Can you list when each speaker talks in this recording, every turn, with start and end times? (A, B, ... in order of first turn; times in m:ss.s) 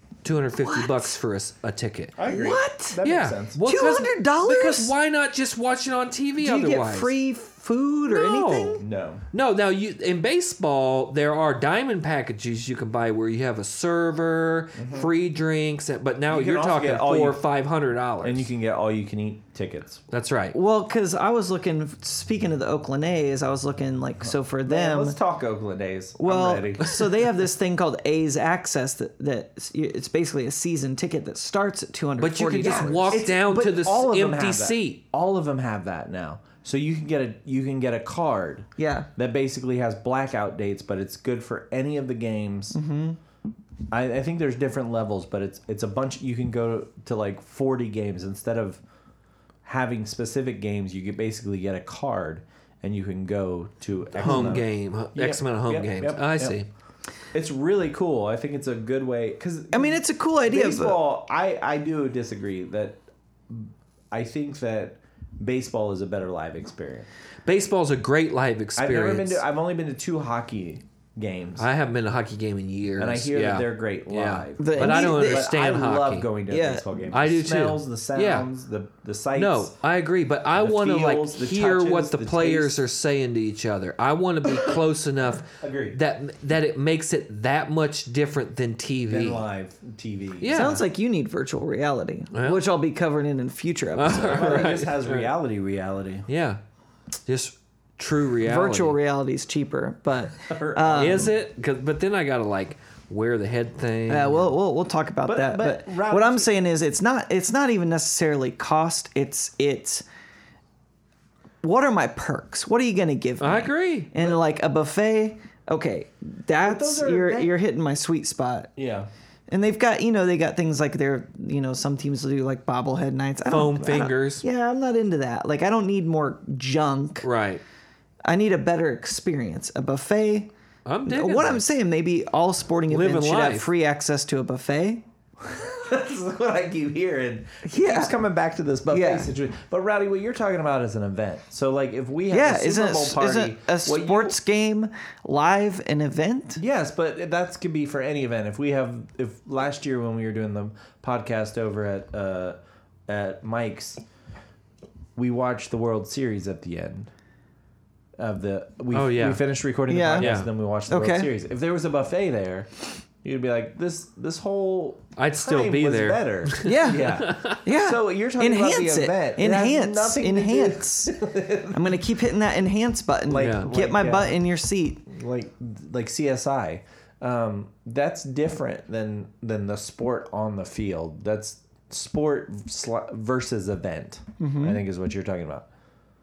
0:00.2-0:02.2 A
0:00.6-0:01.1 B
0:02.2-0:03.6 C
0:02.3-0:03.0 B
0:03.0-0:07.1 A
0:03.6-0:04.9 B
0:06.4-0:08.8 B
0:08.1-0:18.5 A
0:08.8-0:09.2 C
0:14.8-0:15.1 C
0:16.3-0:17.4 C
0:18.2-0:20.0 C
0:20.1-0:20.6 A
0:20.5-0:25.2 B
0:24.2-0:27.0 C
0:26.2-0:33.2 B
0:32.2-0:35.0 A
0:32.6-0:42.8 C
0:38.8-0:39.1 B
0:42.7-0:43.2 B
0:43.9-0:48.8 C
0:49.6-0:56.6 C
0:54.2-0:56.7 A
0:57.3-1:07.1 C
0:59.7-1:01.0 B
1:07.5-1:09.4 A
1:08.8-1:11.7 C
1:11.6-1:16.3 A
1:13.0-1:19.7 C
1:14.6-1:15.5 B
1:16.5-1:16.8 B
1:17.1-1:18.5 A
1:19.4-1:29.4 A
1:20.6-1:22.8 C
1:25.6-1:26.0 C
1:29.1-1:30.8 C
1:30.4-1:30.8 A
1:30.5-1:34.6 B
1:32.3-1:32.6 A
1:34.0-1:35.3 A
1:34.2-1:36.3 C
1:36.3-1:36.6 A
1:37.3-1:39.0 A
1:38.4-1:41.3 B
1:40.5-1:41.4 C
1:40.9-1:44.5 A
1:44.1-1:50.0 B
1:45.3-1:46.5 C
1:51.6-1:58.7 B
1:53.4-1:54.1 A
1:56.6-1:57.6 C
1:58.8-1:59.1 C
1:59.5-2:07.3 B
2:03.5-2:04.4 A
2:07.2-2:07.6 A
2:08.2-2:10.5 B
2:10.9-2:11.6 A
2:11.1-2:15.0 B
2:12.9-2:13.7 A
2:15.4-2:24.4 C
2:17.6-2:18.1 B
2:18.9-2:19.3 B
2:22.3-2:26.6 B
2:26.6-2:34.0 C
2:35.2-2:37.1 C
2:38.2-2:51.9 C
2:38.9-2:39.4 A
2:39.9-2:40.3 B
2:40.2-2:40.5 A
2:40.9-2:41.3 B
2:45.2-2:47.6 A
2:46.6-2:51.2 B
2:51.7-2:55.0 B
2:53.3-2:54.4 C
2:53.4-2:53.7 A
2:55.1-3:05.7 C
3:04.4-3:04.8 B